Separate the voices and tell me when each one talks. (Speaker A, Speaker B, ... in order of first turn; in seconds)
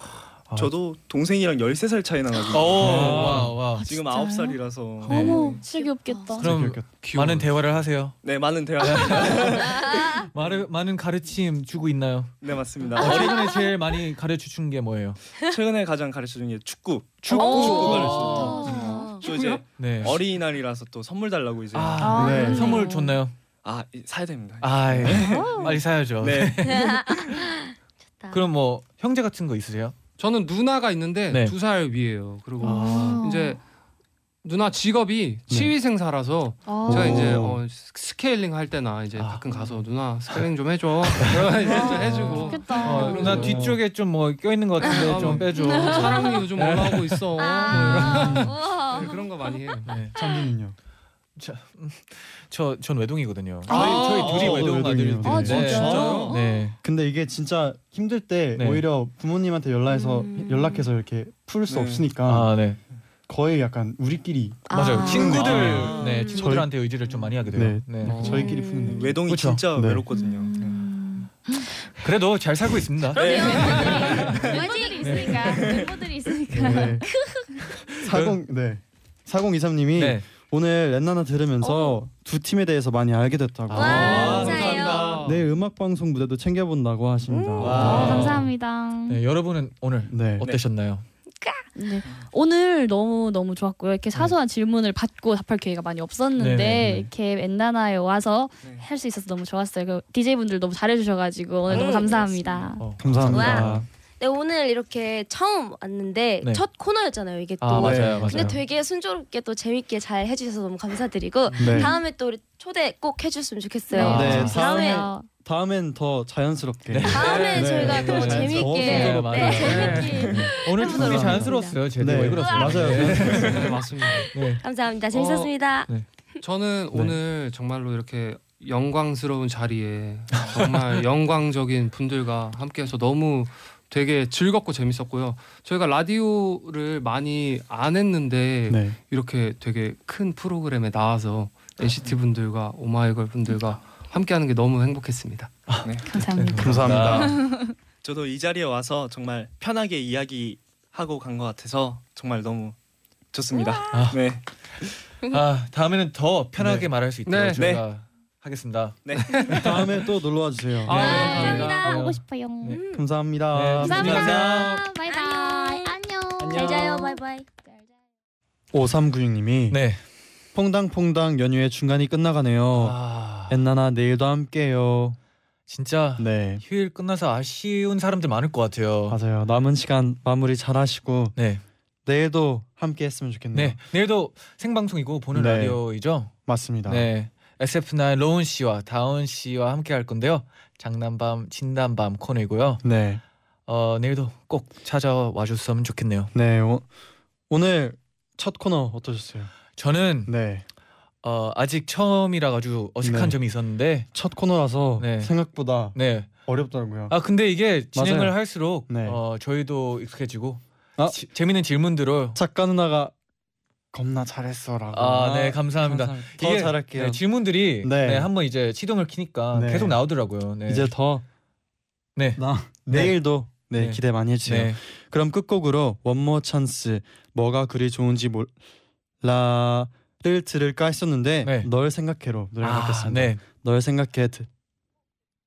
Speaker A: 0.5-5.6, 8.2-10.0, 12.4-13.6, 15.5-22.3, 23.6-26.6, 53.8-54.8, 55.5-56.4, 61.7-62.0, 65.4-66.3, 68.8-70.9, 73.2-74.7, 75.4-76.0, 84.0-85.2, 87.6-88.3, 123.2-123.6, 141.9-142.2, 145.8-146.1, 148.0-152.8, 153.3-154.4, 157.6-157.8, 159.1-159.4, 164.0-164.8, 166.4-166.9
Speaker B: 2.5-3.9, 5.0-5.3, 6.4-9.7, 10.3-15.2, 17.2-18.8, 19.8-20.2, 21.7-23.3, 24.6-27.4, 28.3-30.0, 31.3-31.6, 32.6-33.2, 39.2-39.7, 42.2-48.5, 49.9-50.2, 51.4-56.8, 58.5-58.9, 62.2-62.8, 64.7-68.4, 69.3-69.6, 71.9-74.3, 75.0-75.6, 76.5-77.0, 78.0-78.4, 80.0-80.2, 83.7-84.8, 87.6-88.5, 89.1-91.1, 96.4-96.9, 102.8-103.9, 107.6-108.6, 114.0-114.5, 116.9-124.6, 130.3-131.0, 145.7-147.4, 153.9-160.0, 160.8-162.8, 163.5-164.9, 169.7-170.0, 172.7-173.6, 175.7-179.2, 181.4-181.6, 183.5-186.3, 186.8-192.9, 193.7-196.3, 199.8-200.4, 201.2-204.1, 205.0-206.5, 207.1-212.4, 214.9-220.9, 222.2-223.1, 223.8-224.8, 231.4-231.7, 232.6-233.4
Speaker C: 2.8-3.5, 6.4-6.9, 22.2-22.8, 36.9-37.6, 43.2-43.8, 47.7-48.5, 50.1-50.8, 53.7-55.9, 56.8-62.5, 63.3-66.7, 67.5-69.2, 69.8-70.0, 76.6-77.1, 78.0-84.1, 85.2-88.4, 90.1-90.5, 96.7-97.1, 103.0-103.9, 107.7-108.6, 111.6-111.9, 114.0-123.7, 138.7-139.0, 146.6-147.4, 156.6-156.9, 159.6-161.6, 162.9-164.3, 168.7-169.8, 170.5-175.2, 176.2-176.6, 179.1-181.4, 182.1-183.8, 185.3-185.8, 186.5-187.1, 192.8-193.2, 196.3-196.9, 197.5-199.6, 200.3-200.7, 203.0-203.4, 204.1-207.2, 207.9-209.2, 212.3-213.1, 213.9-217.2, 217.8-218.3, 219.5-220.0, 220.7-221.2, 222.4-228.6, 229.2-234.5
Speaker D: 3.5-6.5, 17.5-19.1, 22.0-23.2, 25.2-25.7, 32.6-33.6, 36.7-37.2, 41.7-43.5, 45.6-46.3, 47.5-47.8, 48.4-49.1, 55.2-56.7, 70.1-71.6, 73.2-77.5, 87.7-89.2, 91.8-102.8, 111.6-112.0, 113.9-115.3, 146.1-147.7, 161.0-162.8, 163.8-167.2
Speaker E: 5.1-6.5, 9.4-10.3, 13.0-13.7, 17.3-19.5, 25.2-25.8, 26.6-28.4, 41.7-43.1, 44.8-45.1, 47.4-49.1, 59.9-60.9, 64.7-66.4, 68.2-69.2, 73.2-75.8, 77.1-77.5, 81.6-82.0, 83.7-85.2, 87.3-88.3, 91.4-91.7, 101.7-102.7, 103.3-115.1, 117.1-126.4, 153.5-154.1, 160.9-162.0, 162.7-163.0, 165.0-166.0, 166.5-167.5
Speaker F: 6.9-7.6, 19.3-19.6, 30.2-33.6, 34.4-43.8, 44.9-50.0, 53.8-54.3, 55.9-56.3, 68.1-68.5, 83.8-85.5, 119.5-120.4, 123.1-124.3, 125.1-125.5, 126.4-145.5, 157.3-157.6, 159.3-159.7, 160.9-161.9